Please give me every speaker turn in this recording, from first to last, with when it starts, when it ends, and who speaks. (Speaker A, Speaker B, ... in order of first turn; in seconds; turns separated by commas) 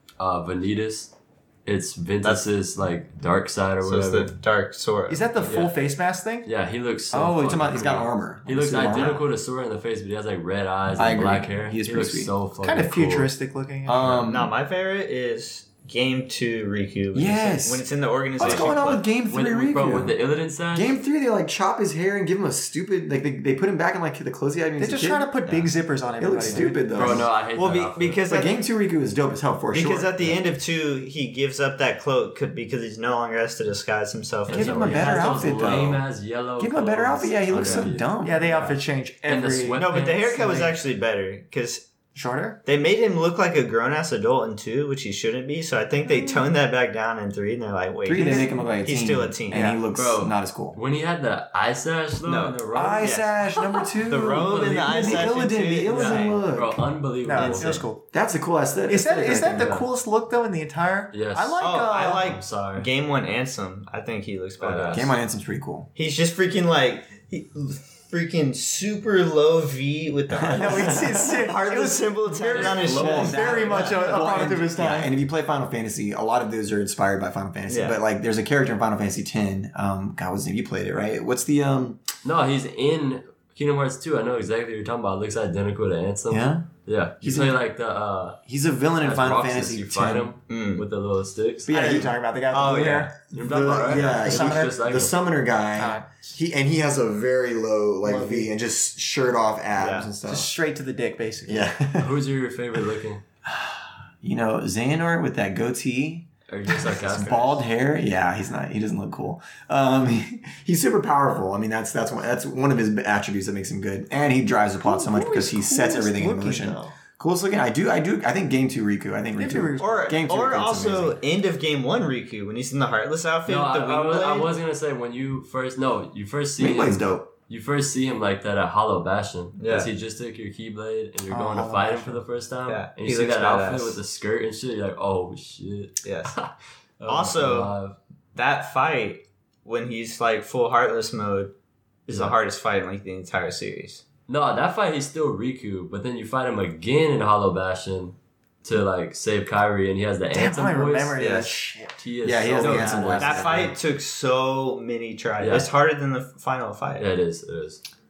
Speaker A: 0.2-1.1, Speaker A: 1.6-4.3, Speaker B: 3.8-5.4, Speaker C: 5.1-6.5, Speaker A: 5.4-5.8, Speaker A: 6.4-13.3, Speaker D: 7.1-9.2, Speaker D: 10.9-12.3, Speaker C: 12.6-14.2, Speaker D: 13.8-14.5, Speaker B: 14.2-19.0, Speaker D: 17.1-17.9, Speaker D: 18.4-20.2, Speaker A: 18.4-21.0, Speaker D: 20.7-25.3, Speaker C: 24.8-27.2, Speaker D: 26.2-27.3, Speaker A: 26.9-28.2, Speaker B: 27.5-28.6, Speaker D: 28.3-30.4, Speaker B: 29.7-35.8, Speaker A: 34.5-38.1, Speaker D: 34.5-36.0, Speaker D: 36.6-38.4, Speaker B: 37.5-37.9, Speaker C: 38.2-40.7, Speaker B: 38.4-38.7, Speaker A: 39.2-40.2, Speaker B: 39.7-41.9, Speaker C: 42.1-42.6, Speaker B: 42.6-49.7, Speaker D: 48.0-50.8, Speaker C: 48.1-48.5, Speaker C: 49.5-49.8, Speaker A: 49.9-53.2, Speaker B: 52.2-53.4, Speaker D: 52.7-59.8, Speaker B: 54.0-56.4, Speaker A: 54.2-55.4, Speaker A: 55.9-57.9, Speaker C: 57.2-58.0, Speaker C: 58.9-62.3, Speaker A: 59.5-59.9, Speaker A: 61.1-61.6, Speaker B: 61.6-65.1, Speaker A: 62.1-62.9, Speaker A: 64.6-65.1, Speaker D: 64.9-65.9, Speaker B: 65.9-74.6, Speaker D: 70.3-71.5, Speaker C: 70.5-75.1, Speaker A: 72.5-73.2, Speaker D: 72.7-82.0, Speaker B: 77.7-78.0, Speaker A: 82.2-88.4, Speaker D: 86.3-86.7, Speaker D: 87.2-87.6, Speaker D: 88.5-90.3, Speaker A: 89.0-91.7, Speaker B: 90.5-90.8, Speaker D: 91.7-92.1, Speaker C: 91.7-94.7, Speaker B: 92.5-93.1, Speaker D: 93.3-100.5, Speaker A: 93.3-95.1, Speaker C: 95.8-96.3, Speaker C: 98.0-98.5, Speaker B: 99.8-100.1, Speaker C: 100.3-101.7, Speaker D: 101.5-102.2, Speaker A: 102.0-103.2, Speaker D: 103.5-121.2, Speaker A: 106.5-107.6, Speaker C: 114.8-116.9, Speaker C: 119.4-120.1, Speaker B: 119.8-124.5, Speaker A: 123.5-138.0, Speaker D: 126.6-127.3, Speaker B: 129.6-129.9, Speaker C: 131.3-132.2, Speaker B: 132.7-134.0, Speaker B: 136.0-136.3, Speaker B: 137.0-137.7, Speaker B: 138.3-141.5, Speaker B: 142.1-144.0, Speaker A: 144.3-151.3, Speaker C: 150.3-152.0, Speaker B: 151.2-151.5, Speaker A: 152.0-153.7, Speaker D: 152.2-153.7, Speaker B: 152.6-157.1, Speaker A: 155.4-155.7, Speaker A: 157.0-157.8